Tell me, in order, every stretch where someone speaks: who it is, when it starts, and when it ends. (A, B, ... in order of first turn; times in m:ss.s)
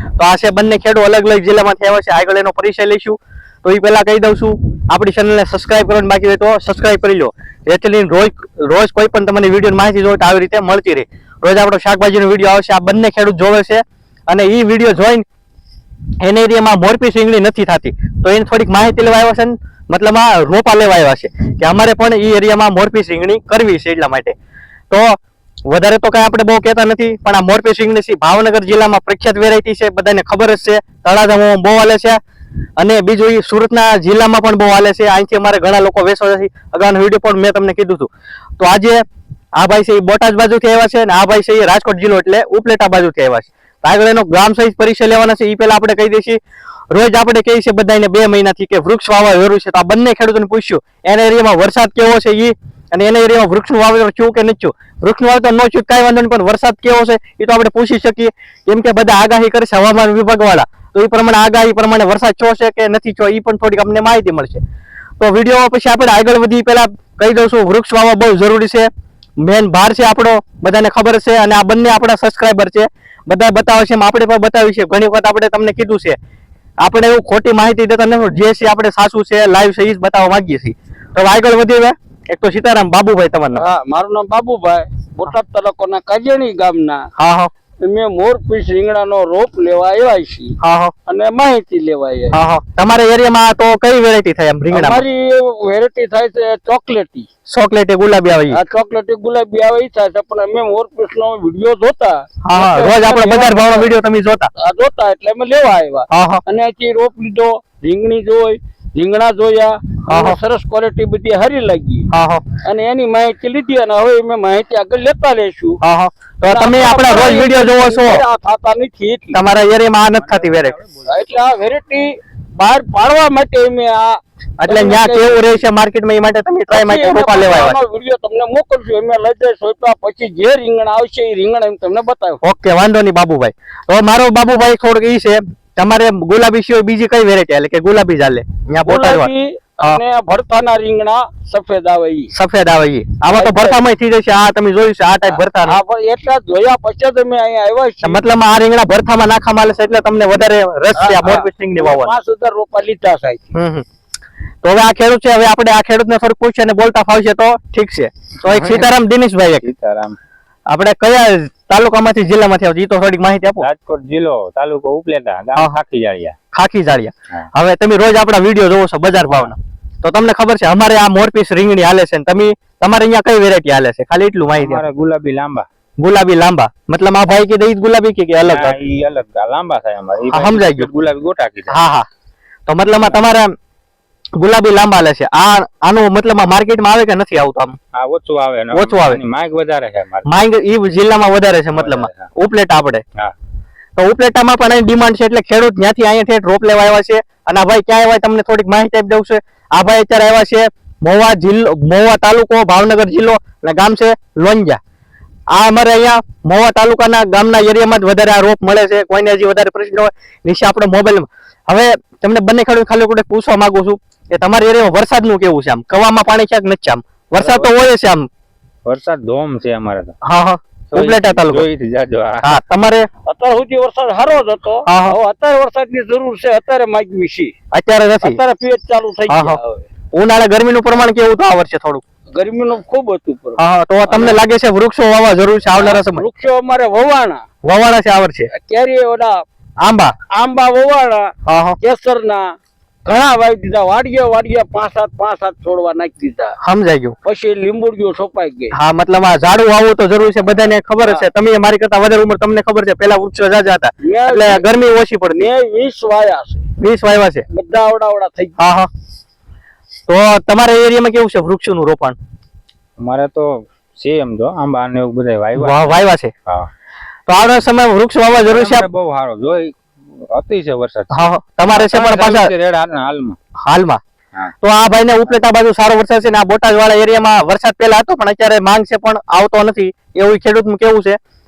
0:00.2-0:15.2 A
0:16.2-0:24.3 A
0:24.9-0:25.2 A
0:25.7-0:32.2 A
0:32.8-0:39.0 A
0:39.6-0:46.4 A
0:46.9-1:04.6 A
1:05.2-1:08.9 A
1:09.4-1:16.2 A
1:16.8-1:23.6 A
1:23.5-1:27.1 B
1:27.2-1:27.5 A
1:27.8-1:30.6 B
1:30.6-1:30.9 A
1:31.1-1:32.4 B
1:32.3-1:35.0 A
1:34.7-1:37.3 B
1:37.5-1:38.6 A
1:38.5-1:43.9 B
1:42.4-1:44.5 A
1:44.5-1:52.1 B
1:46.1-1:46.4 A
1:50.1-1:50.4 A
1:52.1-1:52.4 A
1:52.6-1:55.8 B
1:55.8-1:58.2 A
1:56.4-1:59.4 B
1:59.3-2:00.8 A
2:01.0-2:05.6 B
2:04.6-2:07.8 A
2:06.7-2:12.4 B
2:12.4-2:19.3 A
2:18.8-2:22.3 B
2:22.3-2:25.8 A
2:23.3-2:23.8 B
2:25.3-2:28.2 B
2:28.0-2:32.1 A
2:31.0-2:33.5 B
2:33.5-2:33.8 A
2:34.6-2:39.6 A
2:38.4-2:38.9 C
2:39.6-2:40.2 C
2:40.7-2:43.6 A
2:43.6-2:46.4 C
2:46.5-2:54.8 A
2:54.6-2:55.6 C
2:56.0-2:58.7 A
2:58.5-3:01.8 C
3:00.3-3:00.9 A
3:01.7-3:02.0 A
3:02.7-3:03.5 A
3:04.4-3:07.8 A
3:07.9-3:10.3 C
3:08.7-3:09.2 A
3:10.2-3:13.0 A
3:11.7-3:12.3 C
3:14.0-3:24.8 A
3:25.5-3:38.3 A
3:37.4-3:37.7 C
3:38.8-3:40.1 C
3:40.2-3:41.7 A
3:40.9-3:42.6 C
3:42.4-3:43.1 A
3:43.2-3:47.5 B
3:44.9-3:45.2 A
3:47.7-3:48.4 A
3:48.2-3:49.8 B
3:49.3-3:49.6 A
3:50.1-3:52.0 A
3:52.3-3:54.4 B
3:53.6-3:56.2 A
3:55.7-3:57.4 B
3:57.6-3:58.5 A
3:58.5-3:59.4 B
3:59.8-4:00.1 A
4:00.3-4:02.5 B
4:01.4-4:01.8 A
4:03.0-4:06.6 B
4:06.6-4:07.2 A
4:07.2-4:08.8 B
4:08.7-4:15.5 A
4:11.0-4:11.3 B
4:14.0-4:14.7 B
4:15.3-4:16.7 B
4:16.8-4:17.4 A
4:17.5-4:18.6 B
4:18.6-4:18.9 A
4:20.1-4:22.2 A
4:23.0-4:26.7 C
4:25.5-4:26.3 A
4:27.3-4:28.9 A
4:28.4-4:33.4 C
4:31.1-4:32.5 A
4:33.6-4:34.0 A
4:34.6-4:41.2 A